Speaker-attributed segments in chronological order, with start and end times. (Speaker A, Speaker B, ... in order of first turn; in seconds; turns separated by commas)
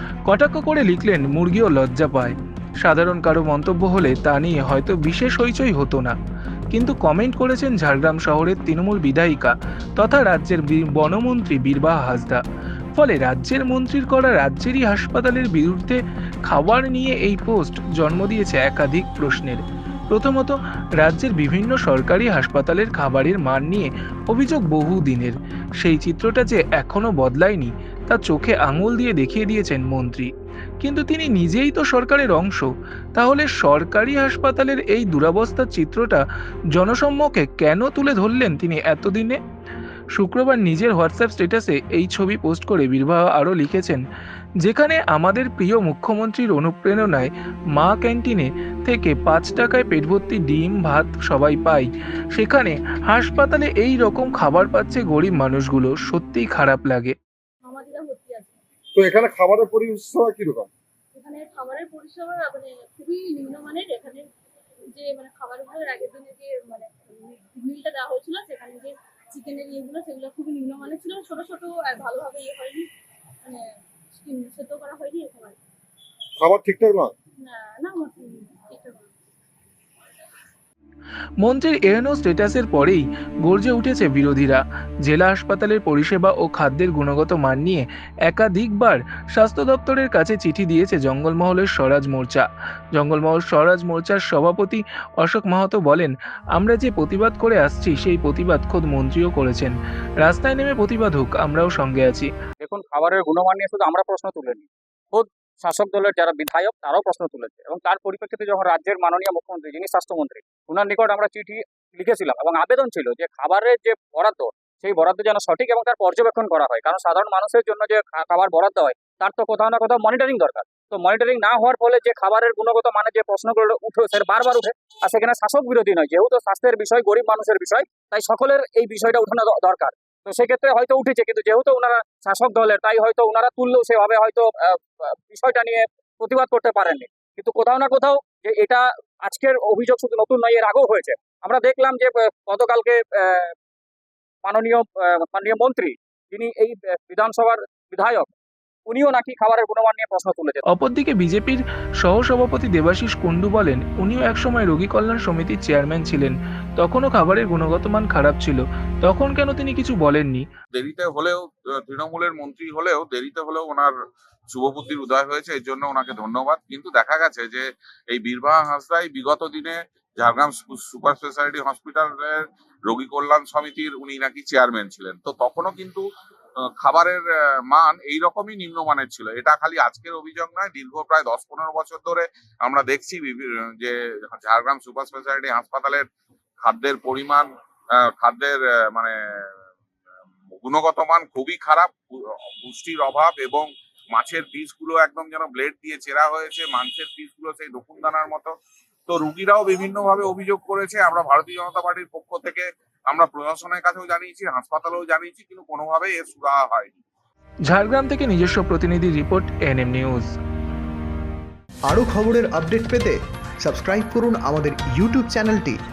Speaker A: 0.3-6.1, Speaker A: 6.7-12.4, Speaker A: 12.9-30.3, Speaker A: 30.8-36.2, Speaker A: 36.7-39.4, Speaker A: 40.1-44.0, Speaker A: 44.6-57.1, Speaker B: 57.6-58.6, Speaker C: 58.9-60.7, Speaker B: 61.1-64.3, Speaker B: 64.9-72.9, Speaker B: 73.4-75.6, Speaker C: 76.4-77.1, Speaker B: 77.5-79.1, Speaker A: 81.4-102.3, Speaker D: 102.6-143.5, Speaker D: 144.4-148.3, Speaker D: 148.9-150.6, Speaker A: 150.7-160.4, Speaker E: 160.7-163.9, Speaker E: 164.5-176.0, Speaker E: 176.8-186.1, Speaker E: 186.6-187.5, Speaker E: 188.0-189.1, Speaker E: 190.6-198.5, Speaker E: 199.1-207.0, Speaker A: 207.7-210.3, Speaker F: 211.9-215.8